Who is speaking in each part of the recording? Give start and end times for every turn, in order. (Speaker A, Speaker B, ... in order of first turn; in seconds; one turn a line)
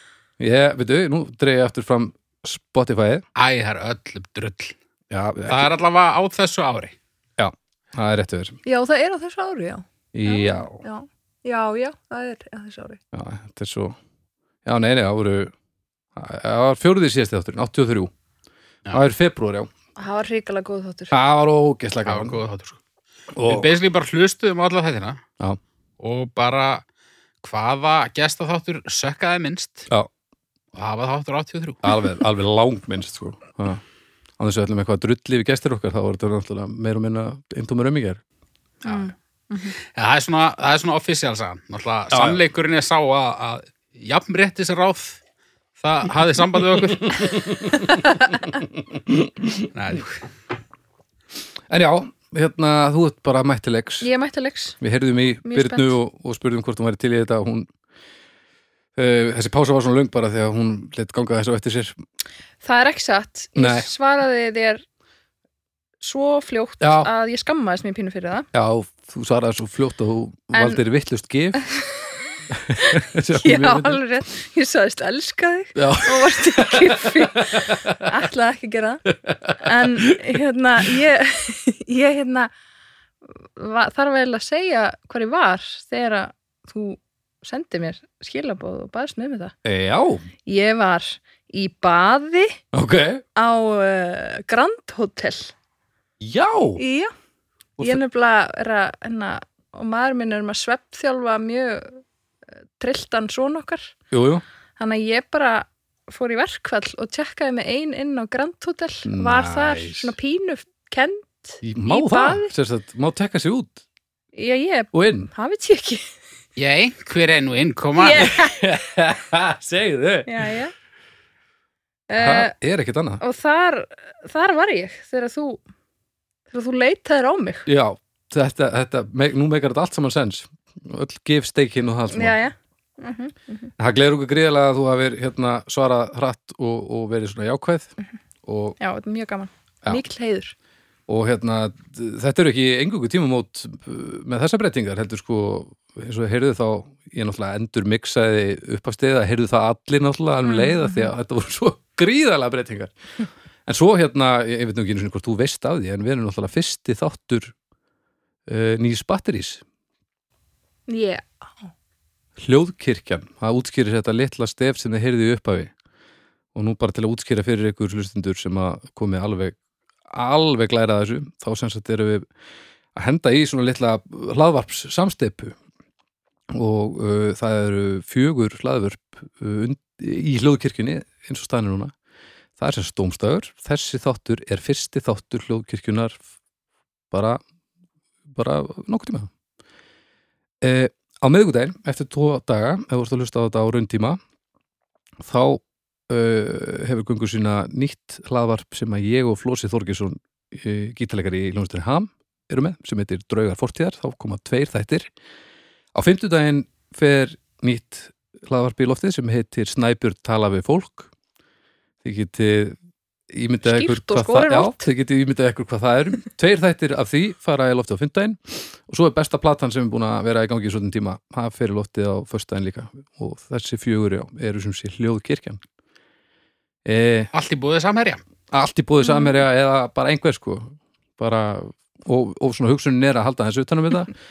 Speaker A: 0.4-3.2
Speaker B: 3.4-4.8
Speaker A: 5.1-5.7
Speaker B: 5.5-7.0
Speaker A: 7.4-8.6
Speaker C: 8.7-13.0
Speaker A: 10.1-10.8
Speaker A: 13.1-14.0
Speaker A: 14.7-15.5
Speaker A: 16.2-18.1
Speaker A: 18.9-19.7
Speaker C: 20.0-21.2
Speaker A: 21.1-22.4
Speaker B: 22.1-22.8
Speaker A: 23.3-23.7
Speaker B: 23.4-25.2
Speaker B: 26.0-26.8
Speaker B: 27.4-29.9
Speaker B: 30.7-31.9
Speaker A: 31.8-33.8
Speaker A: 34.4-38.2
Speaker B: 38.9-39.1
Speaker C: 38.9-39.8
Speaker B: 39.8-45.2
Speaker A: 42.1-42.4
Speaker B: 45.8-47.5
Speaker A: 47.1-48.2
Speaker C: 47.7-48.4
Speaker A: 49.1-49.7
Speaker B: 49.7-50.2
Speaker A: 51.7-54.1
Speaker C: 54.0-54.8
Speaker A: 54.8-57.7
Speaker C: 55.5-55.9
Speaker A: 59.0-62.0
Speaker C: 62.6-64.8
Speaker A: 63.6-63.9
Speaker C: 66.0-68.5
Speaker A: 66.8-67.1
Speaker A: 68.5-71.6
Speaker C: 70.5-70.8
Speaker A: 72.5-74.0
Speaker C: 72.8-79.0
Speaker A: 75.8-78.0
Speaker A: 79.3-80.4
Speaker C: 79.6-82.5
Speaker C: 83.5-89.5
Speaker A: 89.6-90.2
Speaker C: 90.5-92.6
Speaker A: 92.7-93.2
Speaker C: 93.4-95.5
Speaker A: 96.2-96.8
Speaker C: 96.8-97.1
Speaker C: 97.8-102.0
Speaker C: 102.8-103.9
Speaker A: 104.1-104.4
Speaker C: 104.8-112.5
Speaker A: 109.1-110.1
Speaker A: 111.6-113.8
Speaker C: 114.3-116.0
Speaker A: 114.9-115.3
Speaker B: 116.6-118.3
Speaker C: 118.0-118.7
Speaker A: 118.2-120.5
Speaker C: 120.3-120.7
Speaker C: 122.1-122.5
Speaker A: 122.2-123.2
Speaker C: 123.2-125.6
Speaker C: 126.5-127.7
Speaker A: 127.7-132.4
Speaker C: 132.1-133.7
Speaker A: 133.8-137.9
Speaker A: 138.4-138.8
Speaker C: 138.8-140.5
Speaker A: 141.1-152.9
Speaker C: 150.4-151.1
Speaker A: 153.7-157.5
Speaker A: 158.5-159.6
Speaker C: 160.9-161.2
Speaker A: 162.4-165.7
Speaker A: 166.6-169.6
Speaker A: 170.1-172.3
Speaker A: 172.9-175.6
Speaker A: 176.5-181.9
Speaker A: 182.6-186.2
Speaker A: 187.1-187.4
Speaker A: 188.3-189.3
Speaker A: 190.6-194.2
Speaker A: 195.2-205.1
Speaker A: 205.9-211.1
Speaker A: 212.0-212.8
Speaker A: 213.3-225.6
Speaker C: 213.6-214.9
Speaker A: 226.8-227.3
Speaker B: 227.3-228.2
Speaker A: 228.5-234.1
Speaker C: 229.0-229.3